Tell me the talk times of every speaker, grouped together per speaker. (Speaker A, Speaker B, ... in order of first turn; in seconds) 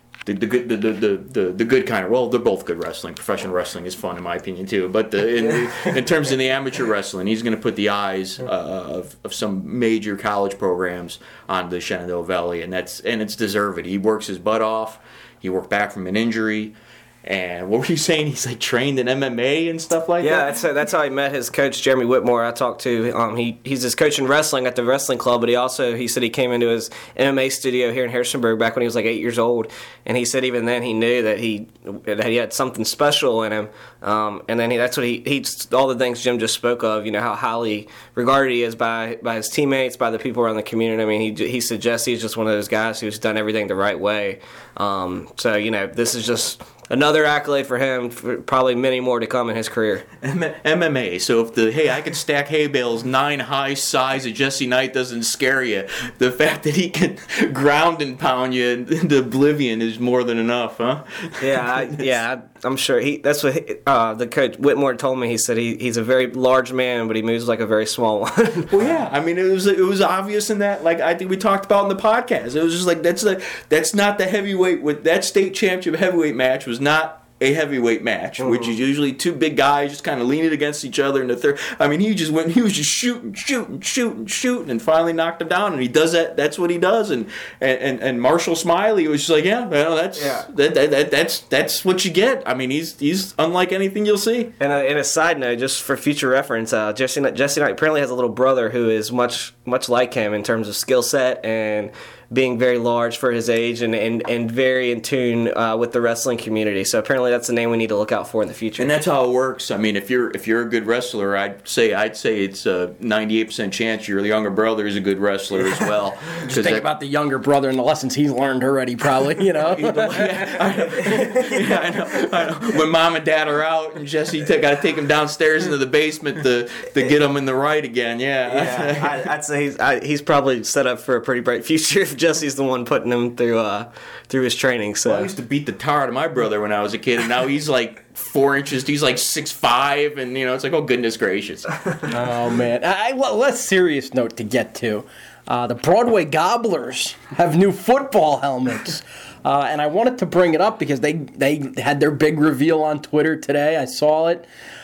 Speaker A: 0.2-20.5, 50.2-62.2, 68.7-94.5, 108.8-116.9, 119.6-129.3, 135.1-141.9
Speaker B: 20.2-50.0, 61.4-68.9, 78.4-78.8, 90.2-90.5, 94.6-108.9, 120.6-122.0, 128.4-135.3
Speaker C: 116.5-120.4, 142.0-154.5